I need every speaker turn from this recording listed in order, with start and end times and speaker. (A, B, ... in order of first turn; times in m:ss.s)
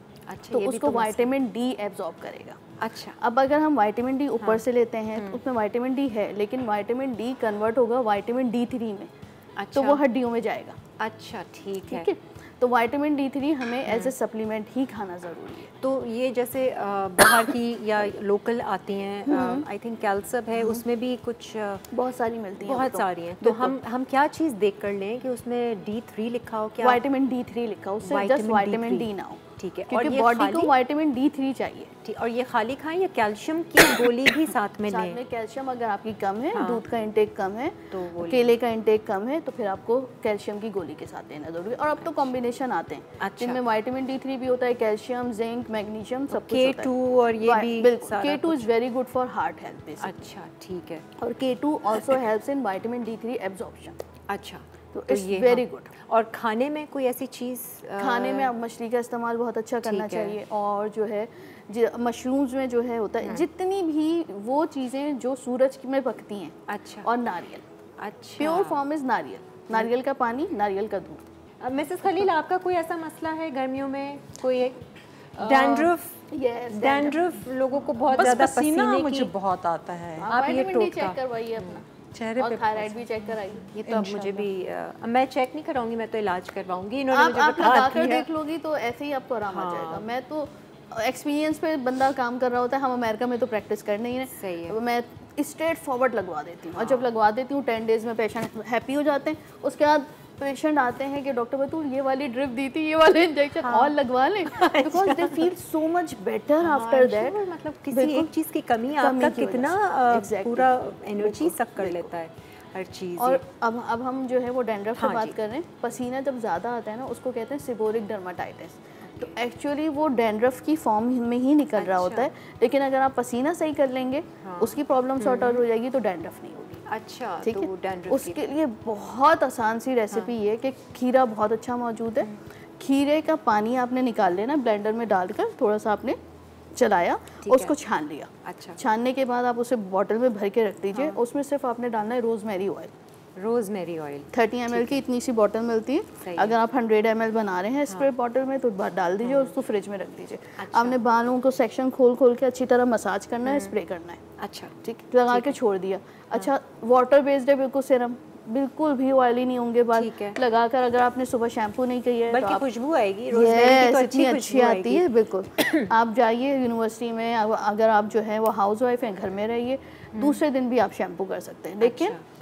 0:00.3-0:01.3 A
0:00.5-0:02.6 B
0:02.8-0:03.2 A
0:03.2-0:09.1 B
0:09.6-0:10.0 A
0:09.7-0:10.8 B
0:11.0-0:12.1 A
0:11.9-0:15.7 B
0:13.9-0:14.1 A
0:15.8-0:21.9 A
0:19.3-0:19.7 B
0:21.9-0:23.8 B
0:22.6-0:27.0 A
0:26.8-0:31.9 B
0:28.0-0:30.7 A
0:32.0-0:35.2 A
0:34.9-0:50.2 B
0:36.6-0:36.8 A
0:37.9-0:38.5 A
0:43.2-0:43.6 A
0:46.3-0:48.7 A
0:50.0-0:51.1 A
0:51.2-0:54.0 B
0:54.3-0:58.5 A
0:54.9-0:55.9 B
0:58.0-1:07.6 B
0:59.8-1:00.4 A
1:06.7-1:07.1 A
1:08.0-1:08.8 A
1:08.4-1:11.2 B
1:11.6-1:14.8 A
1:12.0-1:12.3 B
1:15.4-1:19.3 A
1:15.4-1:17.4 B
1:18.1-1:20.3 C
1:20.1-1:23.9 B
1:20.2-1:23.0 A
1:22.2-1:22.6 C
1:23.6-1:28.3 A
1:23.9-1:24.5 C
1:27.1-1:48.3 B
1:29.5-1:30.1 A
1:34.4-1:34.8 A
1:36.8-1:37.0 A
1:43.6-1:43.9 A
1:44.5-1:45.5 A
1:46.6-1:53.4 A
1:48.9-1:52.1 B
1:53.2-2:06.8 B
1:55.0-1:55.4 A
2:01.8-2:02.3 A
2:04.4-2:05.6 A
2:06.9-2:08.5 A
2:07.4-2:16.2 B
2:16.7-2:22.9 B
2:17.4-2:17.7 A
2:18.4-2:18.8 A
2:23.4-2:25.0 A
2:24.3-2:34.2 B
2:26.2-2:26.6 A
2:29.2-2:29.5 A
2:30.6-2:31.0 A
2:33.5-2:33.7 A
2:34.4-2:34.7 A
2:34.8-2:42.7 B
2:35.3-2:35.6 A
2:40.0-2:40.4 A
2:42.3-2:45.1 A
2:43.3-2:52.2 B
2:45.6-2:45.9 A
2:51.8-2:52.2 A